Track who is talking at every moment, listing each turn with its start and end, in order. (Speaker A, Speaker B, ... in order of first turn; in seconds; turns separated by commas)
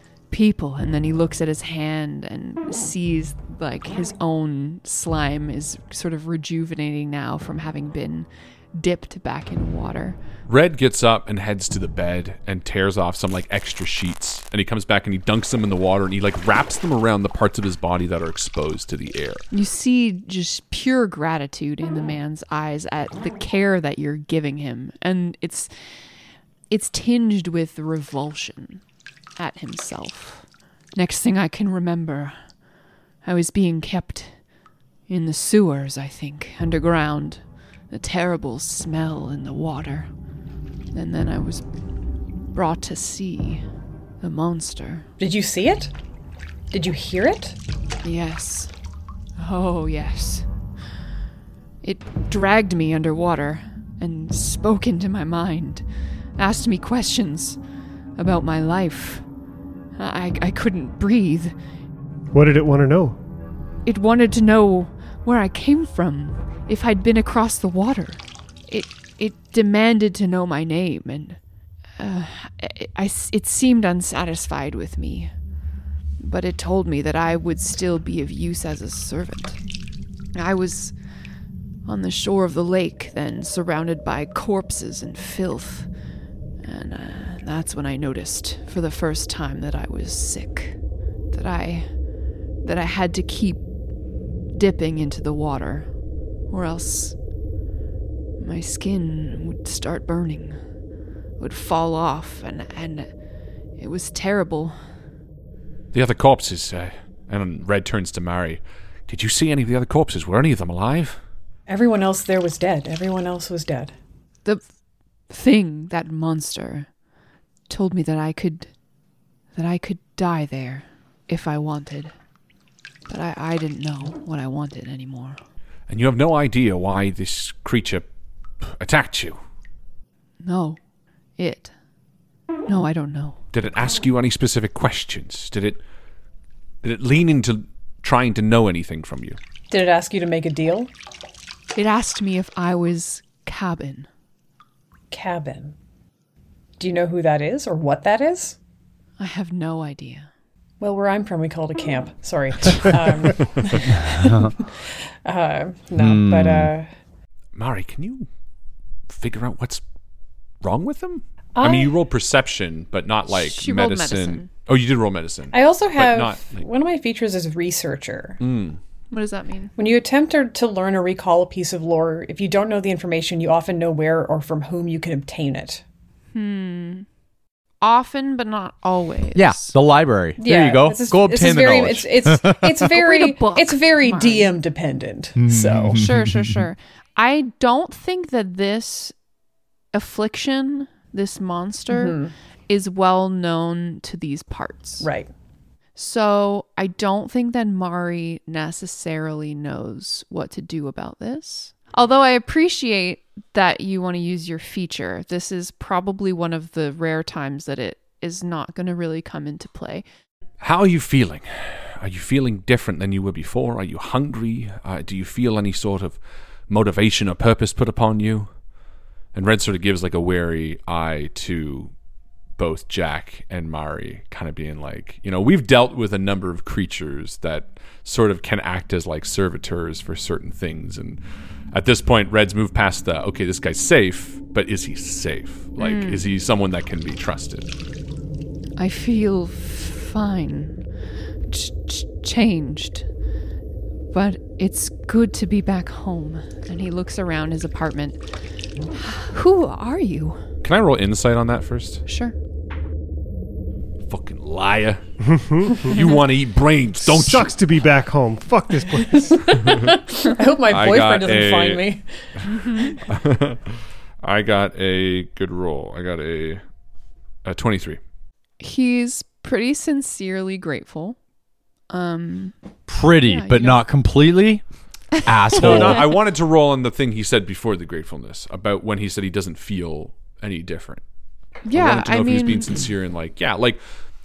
Speaker A: 0.3-10.2, Speaker B: 10.5-19.4, Speaker A: 19.5-25.7, Speaker A: 26.7-28.8, Speaker A: 29.4-32.4, Speaker A: 33.2-34.3, Speaker A: 35.1-40.1, Speaker A: 40.9-41.6, Speaker A: 42.5-43.6, Speaker A: 44.2-45.0, Speaker C: 45.2-45.9, Speaker C: 46.7-47.5, Speaker A: 48.0-48.7, Speaker A: 49.4-50.5, Speaker A: 51.8-55.8, Speaker A: 56.4-57.6, Speaker A: 58.2-59.2, Speaker A: 60.0-61.5, Speaker D: 62.3-63.2, Speaker A: 63.9-71.4, Speaker A: 72.0-75.3, Speaker A: 76.2-79.6, Speaker A: 80.3-80.9, Speaker A: 81.8-85.9, Speaker A: 86.6-90.8, Speaker A: 91.3-91.9, Speaker A: 92.6-93.6, Speaker A: 94.5-95.9, Speaker A: 96.5-97.1, Speaker A: 98.4-100.6, Speaker A: 101.4-103.1, Speaker A: 103.8-104.8, Speaker B: 105.9-111.2, Speaker C: 111.7-113.9, Speaker A: 115.3-116.9, Speaker A: 117.7-118.7, Speaker A: 119.5-122.1, Speaker A: 123.1-125.4, Speaker B: 125.9-128.1, Speaker B: 128.8-129.4, Speaker A: 130.4-130.8, Speaker A: 131.4-131.7, Speaker A: 132.7-133.4, Speaker B: 133.5-135.8, Speaker B: 136.8-139.4, Speaker C: 139.7-140.9, Speaker A: 141.7-144.1, Speaker C: 145.1-145.7, Speaker C: 146.8-148.6, Speaker A: 149.2-150.3, Speaker C: 150.8-154.7, Speaker E: 154.3-154.5, Speaker C: 155.2-156.9, Speaker E: 156.0-156.7, Speaker B: 157.5-158.2, Speaker B: 159.1-159.8, Speaker B: 160.6-166.6, Speaker C: 161.6-161.9, Speaker A: 163.3-164.5, Speaker C: 165.5-168.4, Speaker B: 168.4-168.8, Speaker A: 169.1-169.7, Speaker C: 169.8-175.8, Speaker A: 176.3-177.1, Speaker A: 177.8-179.8, Speaker E: 179.3-182.9, Speaker C: 180.4-186.0, Speaker A: 182.9-184.5, Speaker E: 185.3-186.6, Speaker A: 185.9-189.1, Speaker A: 189.9-192.2, Speaker C: 191.9-192.3, Speaker A: 192.7-195.1, Speaker C: 195.0-195.3, Speaker A: 195.9-210.0, Speaker B: 210.6-218.5, Speaker B: 219.3-221.9, Speaker B: 222.6-231.2, Speaker B: 231.7-237.7, Speaker A: 235.8-236.2, Speaker A: 238.8-240.8, Speaker A: 241.5-243.1, Speaker A: 244.1-248.2, Speaker A: 248.9-250.4, Speaker B: 250.6-252.0, Speaker A: 252.1-252.3, Speaker B: 254.1-255.0, Speaker D: 255.3-256.0, Speaker B: 255.9-257.5, Speaker D: 257.0-259.7, Speaker C: 259.3-262.0, Speaker B: 260.7-261.8, Speaker A: 262.4-263.0, Speaker B: 263.1-263.6, Speaker B: 264.2-266.6, Speaker B: 267.4-268.0, Speaker A: 268.6-271.2, Speaker A: 271.9-272.5, Speaker E: 272.9-274.6, Speaker A: 273.3-273.9, Speaker E: 275.2-276.1, Speaker A: 275.5-276.1, Speaker B: 275.6-281.0, Speaker A: 281.6-282.7, Speaker B: 281.7-283.8